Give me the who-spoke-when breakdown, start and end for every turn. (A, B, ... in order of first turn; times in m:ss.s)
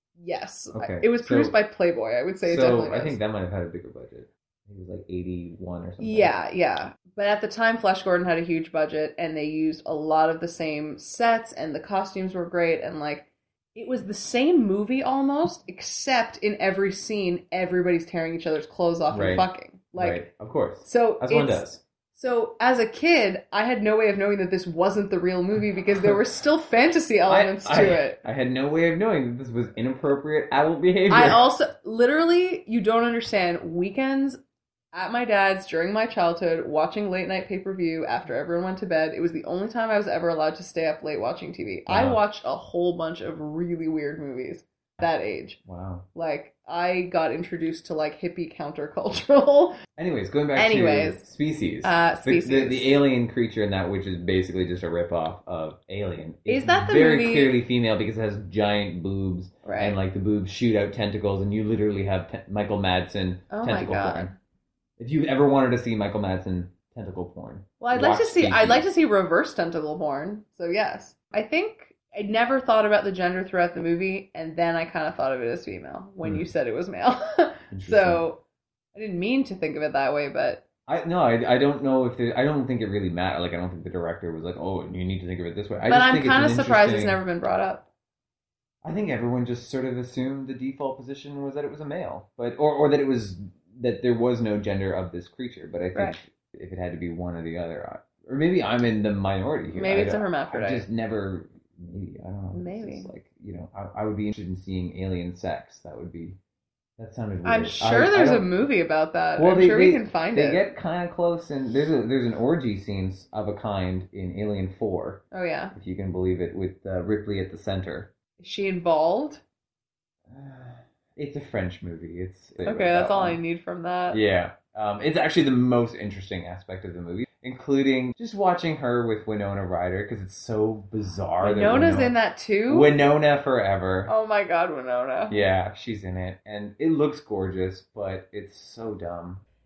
0:00.2-0:03.2 A
0:00.7-0:01.6 B
0:02.4-0:06.3 B
0:06.0-0:20.2 A
0:19.1-0:21.8 B
0:20.8-0:28.2 A
0:27.3-0:31.4 B
0:31.1-0:34.4 A
0:34.9-0:45.6 A
0:41.9-0:42.2 B
0:45.6-0:46.1 B
0:46.2-0:49.8 A
0:50.0-1:04.3 B
0:50.6-0:51.2 A
0:51.8-0:53.0 A
0:56.5-0:57.6 A
0:59.6-1:00.0 A
1:03.5-1:04.3 A
1:05.0-1:08.9 B
1:07.8-1:18.4 A
1:17.7-1:18.2 B
1:18.9-1:20.6 A
1:20.9-1:27.2 B
1:25.9-1:27.8 A
1:28.8-1:46.4 B
1:39.7-1:40.9 A
1:42.5-1:43.1 A
1:47.0-1:48.6 B
1:47.4-1:50.6 A
1:49.4-1:58.1 B
1:55.3-1:55.7 A
1:58.4-1:59.4 A
2:00.3-2:03.4 B
2:02.6-2:04.2 A
2:04.1-2:12.1 B
2:11.4-2:12.9 A
2:12.7-2:14.1 B
2:14.1-2:15.4 A
2:15.3-2:19.4 B